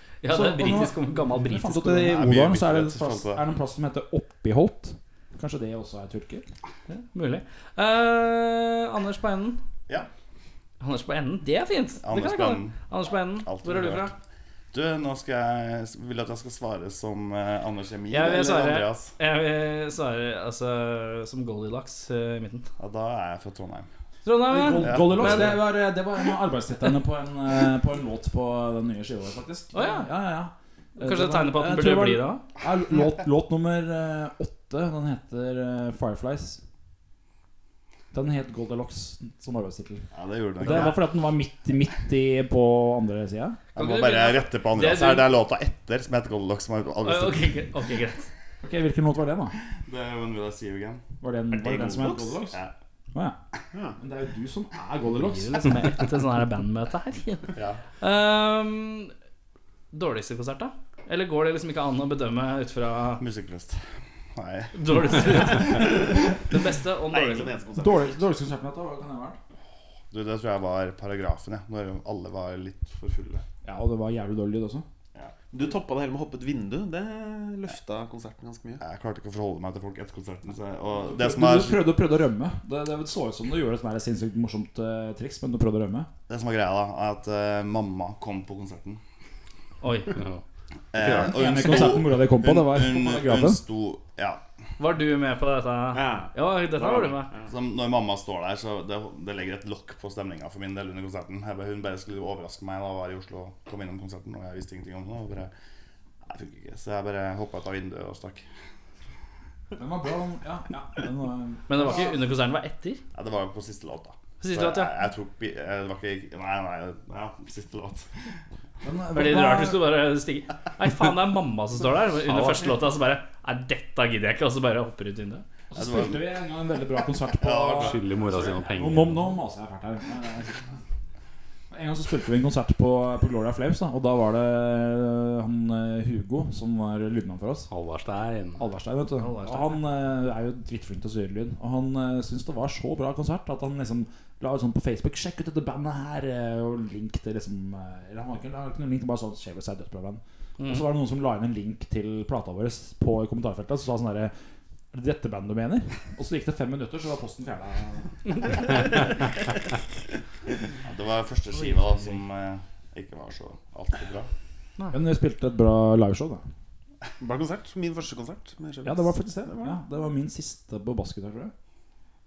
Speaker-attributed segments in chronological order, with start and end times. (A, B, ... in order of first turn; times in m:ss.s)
0:00.2-0:02.1 A
0:00.3-0:06.4 B
0:01.9-0:03.4 C
0:06.9-0:09.6 A
0:10.8-0:14.1 A
0:12.0-0:12.8 C
0:13.4-0:14.2 C
0:14.7-0:19.1 C
0:18.1-0:22.7 A
0:22.8-0:23.9 C
0:24.2-0:25.6 A
0:24.4-0:36.6 B
0:24.8-0:25.6 C
0:29.7-0:30.1 A
0:31.0-0:32.4 A
0:38.1-0:40.1 B
0:40.1-0:41.0 C
0:40.6-0:43.6 B
0:40.7-0:40.9 A
0:43.7-0:45.4 A
0:43.7-0:47.7 C
0:47.0-0:48.3 A
0:48.6-0:49.6 B
0:49.7-0:51.0 C
0:51.2-0:52.6 B
0:51.5-0:52.4 D
0:51.6-0:52.7 C
0:53.7-0:54.0 D
0:54.0-0:55.8 B
0:55.4-0:59.1 A
0:57.5-0:57.8 C
0:59.9-1:03.2 A
1:03.2-1:05.9 C
1:04.7-1:07.5 A
1:05.8-1:06.2 D
1:07.0-1:08.2 D
1:07.8-1:09.4 B
1:10.1-1:13.4 C
1:13.6-1:14.8 B
1:15.5-1:18.8 D
1:18.8-1:22.0 C
1:21.0-1:26.1 B
1:26.3-1:29.0 C
1:29.8-1:30.2 A
1:30.1-1:30.4 E
1:30.9-1:34.4 C
1:31.0-1:31.3 E
1:31.0-1:33.6 B
1:34.8-1:37.3 A
1:35.9-1:37.5 D
1:37.5-1:45.5 C
1:46.2-1:48.4 C
1:49.7-1:52.2 B
1:51.7-1:53.0 A
1:53.1-1:58.2 C
1:54.4-1:54.9 A
1:58.8-1:59.8 B
1:59.1-2:05.4 A
2:02.3-2:02.7 E
2:05.7-2:10.8 B
2:05.7-2:06.3 C
2:07.3-2:08.6 C
2:07.7-2:09.3 E
2:11.7-2:17.7 B
2:17.7-2:18.6 E
2:18.6-2:34.3 B
2:19.2-2:19.8 A
2:30.6-2:30.9 A
2:34.9-2:38.8 B
2:40.8-2:44.3 C
2:44.9-2:46.4 B
2:47.2-2:49.8 D
2:48.8-2:51.5 B